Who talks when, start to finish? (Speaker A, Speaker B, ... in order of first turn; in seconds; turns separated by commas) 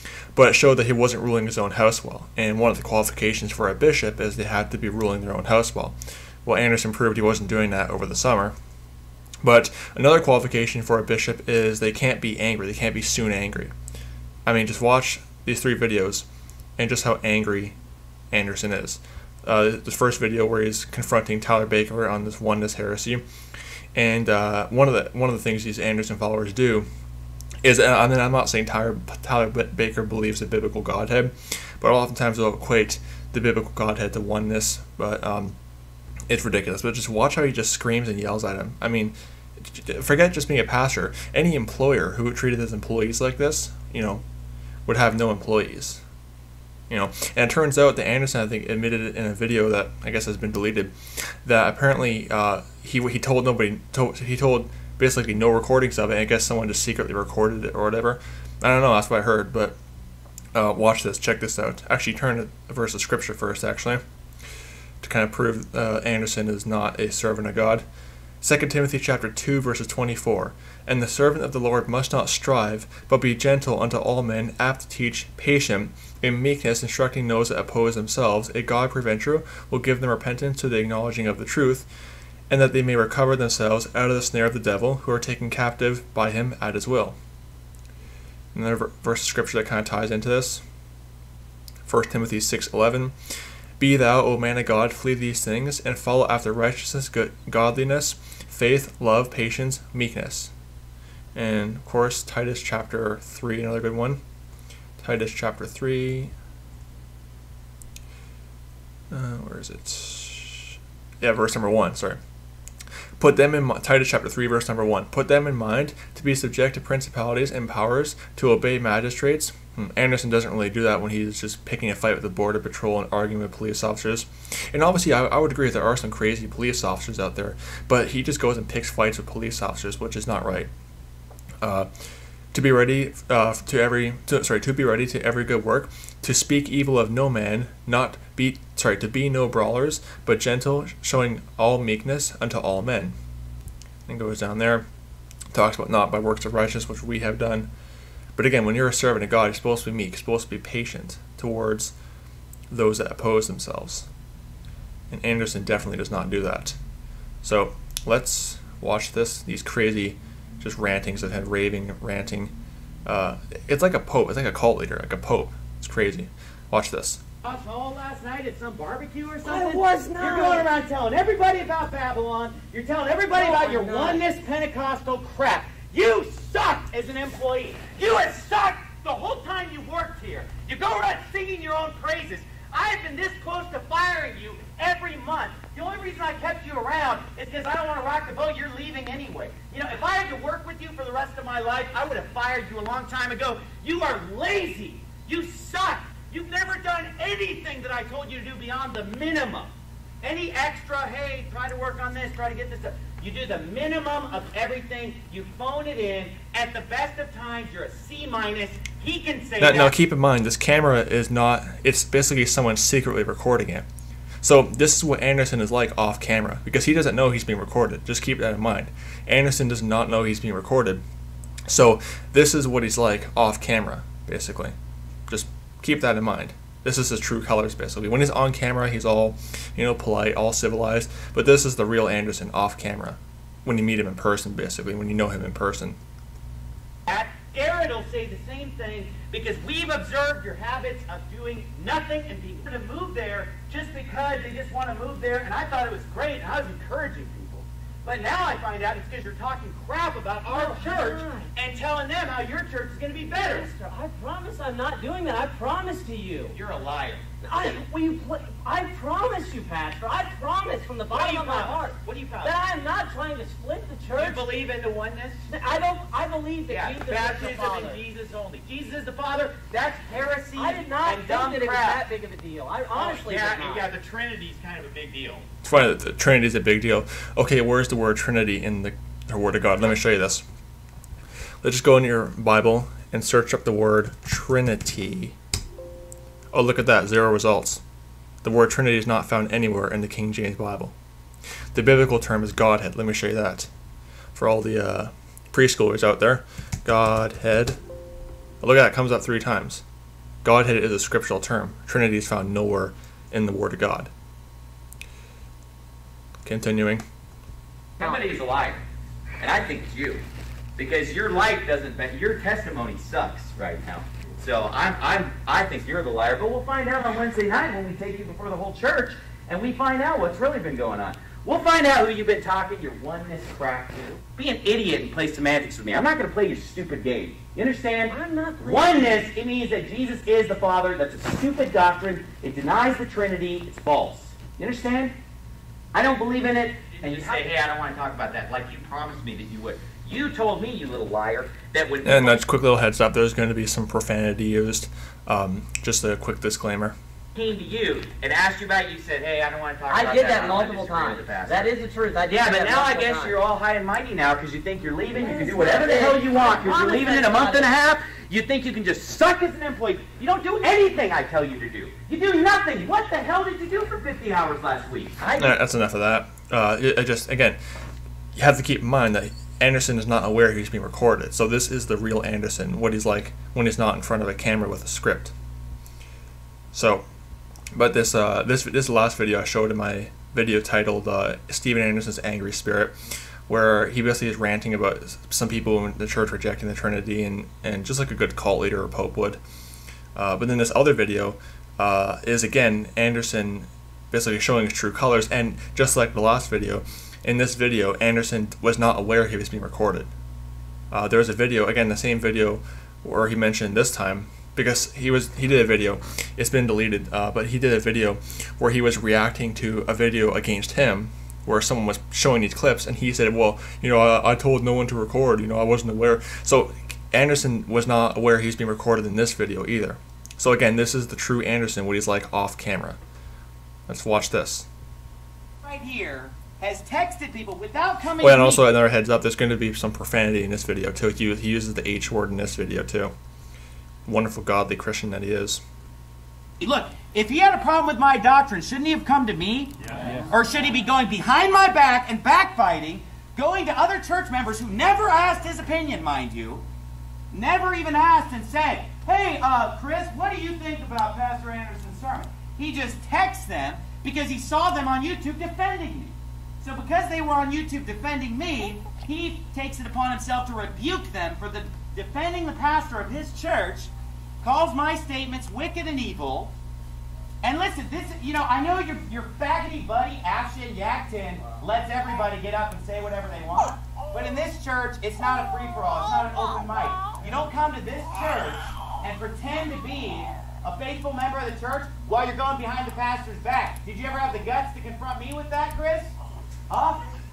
Speaker A: 0.3-8.6, Speaker A: 9.4-13.7, Speaker A: 14.5-16.3, Speaker A: 16.8-17.8, Speaker A: 18.3-23.2, Speaker A: 23.9-26.9, Speaker A: 27.6-35.6, Speaker A: 36.3-44.2, Speaker A: 44.9-46.0, Speaker A: 46.9-59.8, Speaker A: 60.5-64.0, Speaker A: 65.0-67.9, Speaker A: 68.4-81.9, Speaker A: 82.5-87.2, Speaker A: 88.5-90.6, Speaker A: 91.9-93.2, Speaker A: 93.8-100.5, Speaker A: 101.3-104.2, Speaker A: 105.0-106.3, Speaker A: 109.1-112.2, Speaker A: 113.2-130.7, Speaker A: 131.6-131.9, Speaker A: 132.5-143.2, Speaker A: 144.1-144.9, Speaker A: 145.5-147.7, Speaker A: 148.4-151.9, Speaker A: 152.7-154.1, Speaker A: 155.1-156.8, Speaker A: 157.4-162.5, Speaker A: 163.1-167.2, Speaker B: 167.4-199.7, Speaker C: 169.4-170.7, Speaker C: 173.3-174.2, Speaker B: 200.2-210.0, Speaker A: 209.6-213.9, Speaker A: 214.4-221.0, Speaker A: 221.7-224.8, Speaker A: 225.3-236.0, Speaker B: 237.1-253.7, Speaker C: 250.5-251.5, Speaker C: 253.4-256.6, Speaker B: 256.5-257.3, Speaker C: 257.4-264.4, Speaker B: 261.1-262.6, Speaker B: 264.1-265.4, Speaker C: 265.5-268.0, Speaker B: 266.7-272.0, Speaker C: 270.6-273.9, Speaker B: 272.9-275.5, Speaker A: 275.6-280.4, Speaker A: 281.6-285.4, Speaker A: 286.5-287.8, Speaker A: 288.4-290.9, Speaker A: 291.7-293.7, Speaker A: 294.4-297.8, Speaker A: 298.6-299.8, Speaker A: 300.4-304.1, Speaker A: 306.4-307.0, Speaker B: 308.0-308.8, Speaker B: 309.4-310.2, Speaker B: 310.8-335.1, Speaker C: 328.1-329.2, Speaker B: 335.9-342.4, Speaker A: 342.0-346.9, Speaker B: 347.3-351.7, Speaker C: 349.9-353.4, Speaker B: 352.2-365.6, Speaker C: 355.2-357.7, Speaker A: 365.4-367.6, Speaker A: 368.4-375.3, Speaker A: 376.7-377.0, Speaker A: 377.7-382.9, Speaker A: 383.5-389.4, Speaker A: 390.1-400.1, Speaker A: 400.9-423.0, Speaker A: 423.9-424.7, Speaker B: 425.6-428.6, Speaker A: 428.2-433.1, Speaker A: 434.1-435.6, Speaker B: 436.6-446.6, Speaker B: 447.3-466.5, Speaker B: 467.4-486.1, Speaker B: 486.7-487.1